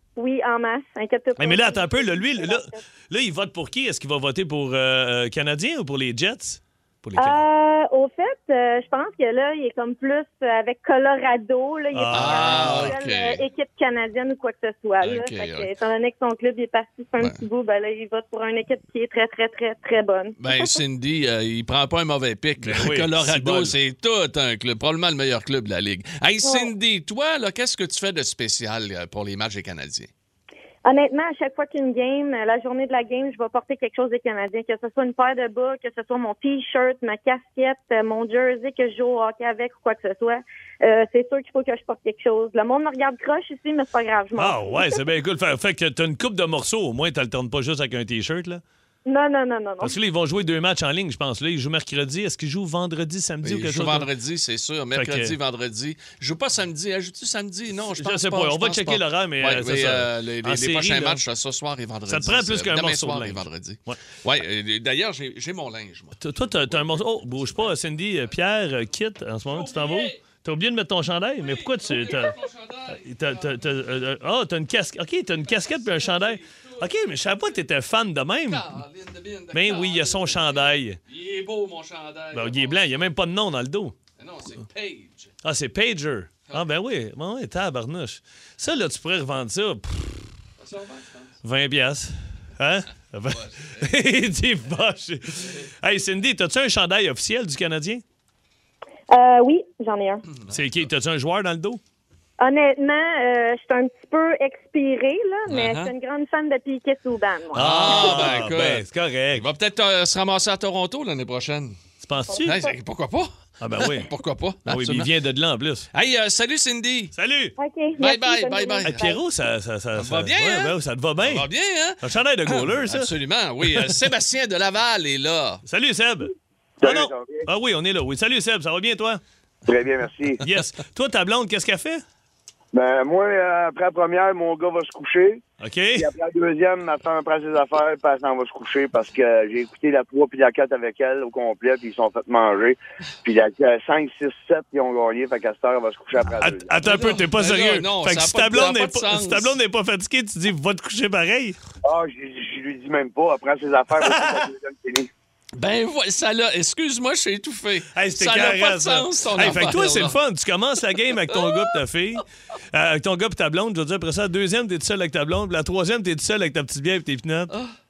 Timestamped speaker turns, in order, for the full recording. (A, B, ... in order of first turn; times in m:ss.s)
0:00.2-0:02.8 A
0:01.4-0:07.4 B
0:07.2-0:20.8 A
0:11.9-0:13.0 B
0:12.1-0:13.4 C
0:15.0-0:15.7 C
0:20.4-0:30.1 C
0:22.6-0:23.8 B
0:26.4-0:26.7 A
0:30.8-0:45.0 A
0:44.4-0:48.6 B
0:49.0-0:50.0 A
0:49.8-0:54.1 B
0:53.4-1:07.8 C
0:54.9-0:55.4 B
0:57.9-1:01.2 B
1:02.1-1:04.0 B
1:06.2-1:12.4 B
1:09.5-1:10.2 C
1:11.4-1:13.6 C
1:13.0-1:18.7 B
1:15.5-1:17.2 C
1:18.4-1:23.1 C
1:19.5-1:21.0 B
1:22.3-1:23.9 B
1:24.2-1:25.3 C
1:25.4-1:30.3 B
1:30.6-1:31.3 C
1:31.4-1:38.0 B
1:33.3-1:33.8 C
1:39.1-1:40.2 A
1:40.5-1:41.8 B
1:42.4-1:48.3 A
1:45.5-1:45.9 C
1:47.5-1:49.5 B
1:47.5-1:51.8 C
1:52.0-1:52.6 B
1:52.3-1:52.7 A
1:52.4-1:55.1 C
1:53.6-1:54.1 B
1:54.6-1:55.9 B
1:55.9-1:57.1 C
1:57.1-1:57.5 B
1:57.6-1:59.2 A
1:58.0-1:59.1 C
1:58.8-2:01.5 B
2:00.0-2:05.6 C
2:02.0-2:03.1 B
2:03.6-2:03.9 B
2:05.6-2:06.3 B
2:06.8-2:07.4 D
2:06.8-2:09.2 B
2:09.6-2:10.4 D
2:10.4-2:12.0 B
2:12.7-2:15.4 D
2:15.6-2:16.0 B
2:16.0-2:26.8 D
2:26.4-2:31.6 B
2:26.8-2:29.5 C
2:31.8-2:35.1 D
2:35.6-2:40.2 C
2:37.9-2:47.5 B
2:41.3-2:41.7 C